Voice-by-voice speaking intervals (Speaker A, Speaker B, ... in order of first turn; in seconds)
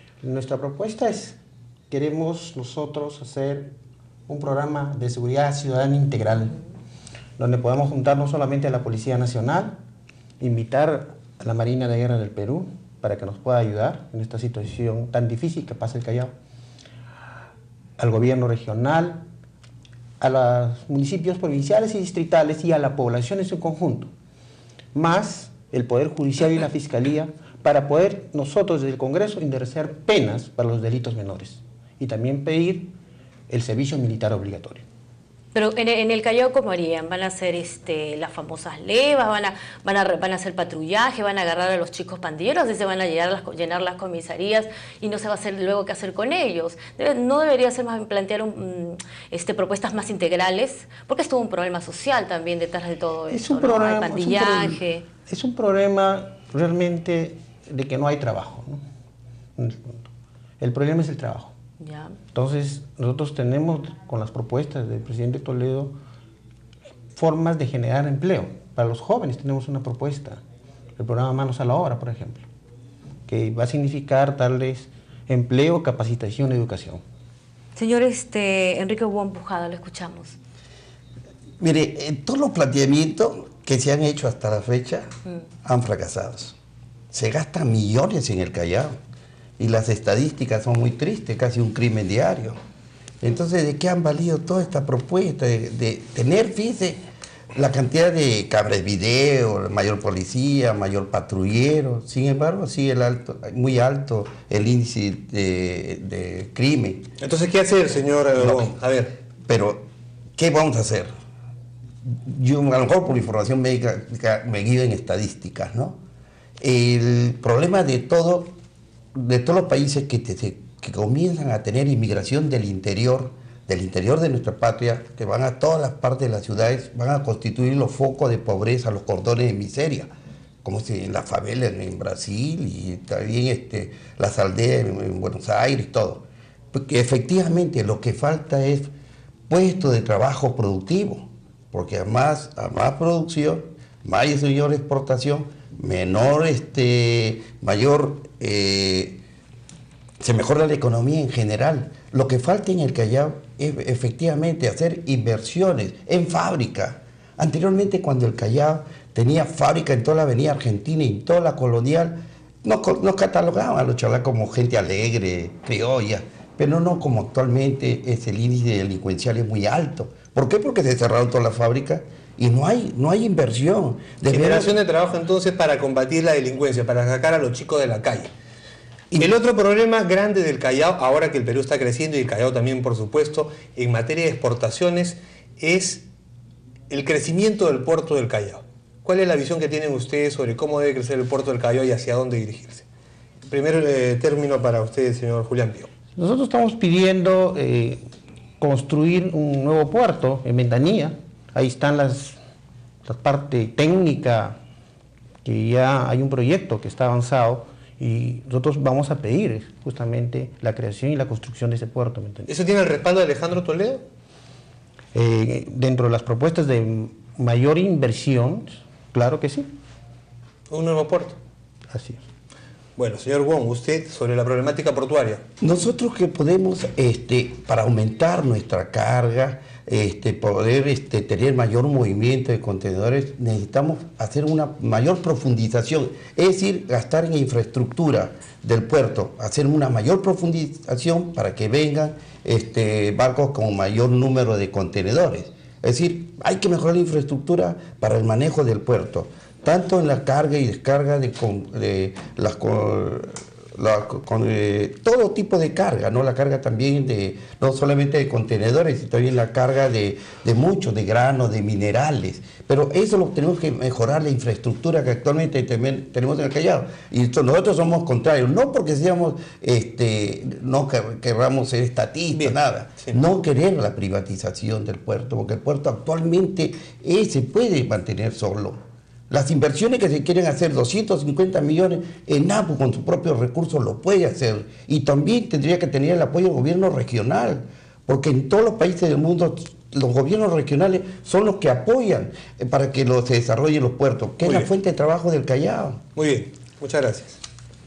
Speaker A: 0.2-1.4, 1.9-3.7, 4.3-6.6, 7.4-9.8, 10.4-16.3, 18.0-19.2, 20.2-24.1, 24.9-32.9, 33.5-34.8, 53.3-58.8, 59.6-60.1, 60.6-61.5, 62.3-65.9, 67.2-70.4, 71.0-72.5, 73.3-77.0, 196.2-198.0, 198.6-202.4, 203.0-204.6, 205.4-212.5, 215.1-219.7, 221.9-222.2
Speaker B: 35.5-55.0, 61.8-62.1, 77.8-80.4
Speaker C: 81.6-85.1, 85.6-86.5, 87.1-88.9, 89.6-92.6, 93.2-97.0, 97.5-107.1, 108.4-108.7, 109.5-109.8, 110.4-111.1, 112.1-116.0, 116.6-118.5, 119.1-130.1, 130.6-138.9, 139.5-149.2, 150.2-174.7, 225.6-278.8, 279.3-296.0
Speaker D: 107.2-109.1, 174.3-178.3, 179.2-186.0, 186.9-192.8, 193.5-195.9, 212.5-214.0, 220.7-221.4, 223.0-225.4, 294.4-294.7, 296.1-297.4